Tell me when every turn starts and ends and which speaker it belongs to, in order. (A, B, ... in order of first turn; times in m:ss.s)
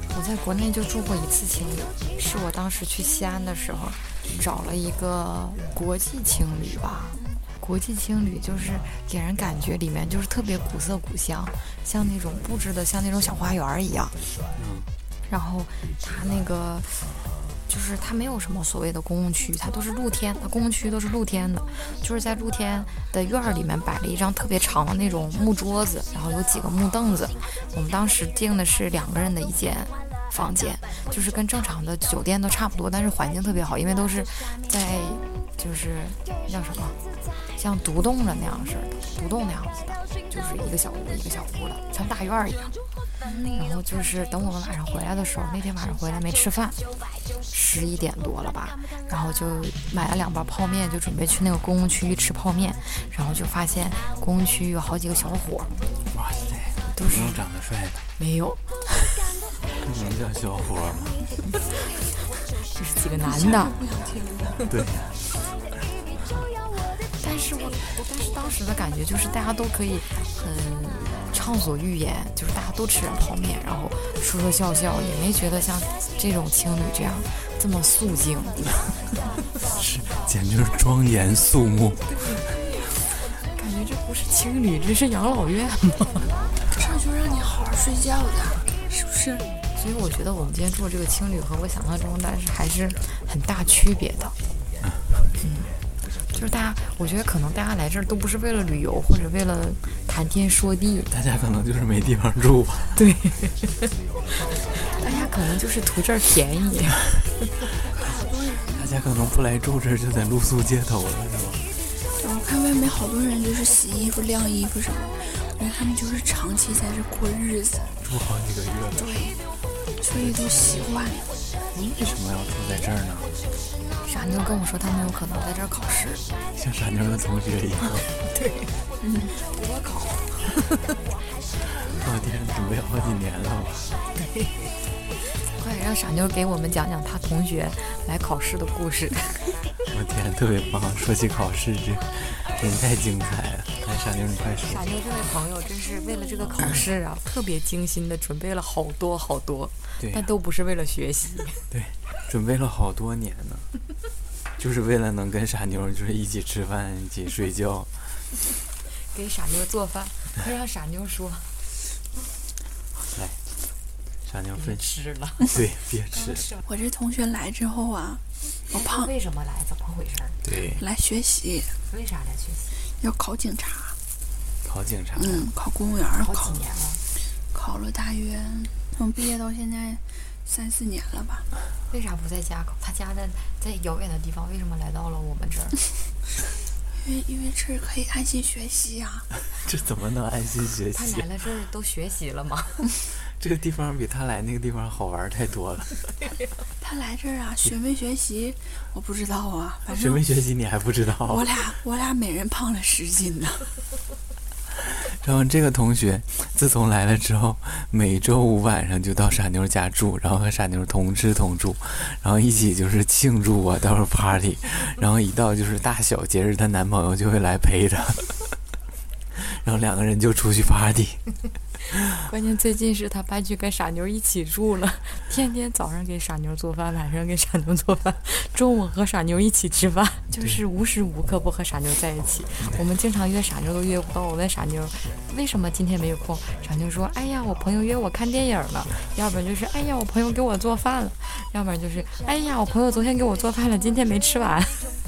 0:00.1-0:14.2 A
0:07.1-0:07.4 B
0:14.6-0:14.9 C
0:15.3-0:17.1 A
0:17.7-0:37.0 A
0:37.6-0:42.8 A
0:43.2-0:43.6 B
0:43.6-0:46.8 A
0:47.5-0:55.7 A
0:56.1-0:58.0 C
0:57.0-0:57.4 A
0:58.2-0:58.6 A
0:59.7-1:01.2 C
1:02.7-1:03.7 A
1:03.2-1:04.7 B
1:04.7-1:05.2 C
1:07.2-1:18.7 A
1:19.7-1:22.1 C
1:22.2-1:22.4 A
1:23.5-1:26.3 A
1:26.7-1:29.5 B
1:29.7-1:34.4 A
1:35.4-1:35.7 A
1:36.3-1:41.1 A
1:41.1-1:43.0 C
1:43.0-1:43.9 A
1:44.7-1:47.1 A
1:45.0-1:45.3 B
1:47.9-1:48.9 B
1:48.7-1:51.6 C
1:52.2-1:57.9 B
1:58.0-1:59.3 C
1:59.0-1:59.4 B
2:00.0-2:01.3 B
2:00.2-2:00.8 C
2:01.8-2:03.3 C
2:04.0-2:06.2 A
2:06.6-2:08.1 C
2:08.2-2:08.7 A
2:09.0-2:09.4 B
2:09.4-2:10.8 A
2:11.9-2:13.9 C
2:15.5-2:19.4 A
2:19.9-2:24.8 C
2:24.6-2:31.6 A
2:30.0-2:30.3 C
2:31.7-2:33.7 C
2:34.6-2:37.9 C
2:39.1-2:41.5 A
2:44.3-2:44.9 C
2:44.6-2:45.6 A
2:45.4-2:46.5 C
2:46.1-2:46.6 A
2:46.7-2:49.1 B
2:48.7-2:50.4 A
2:50.4-2:50.8 C
2:50.8-2:51.7 B
2:51.9-2:52.7 A
2:53.0-2:54.0 B
2:54.6-2:55.5 C
2:55.2-2:56.6 B
2:56.2-2:57.0 A
2:57.5-3:01.5 B
3:01.9-3:05.8 A
3:07.0-3:09.3 B
3:09.6-3:11.3 C
3:10.9-3:12.9 A
3:13.4-3:16.0 C
3:16.8-3:20.2 B
3:19.9-3:21.6 C
3:21.2-3:23.7 B
3:24.9-3:38.3 C
3:39.4-3:41.2 C
3:42.2-4:05.0 A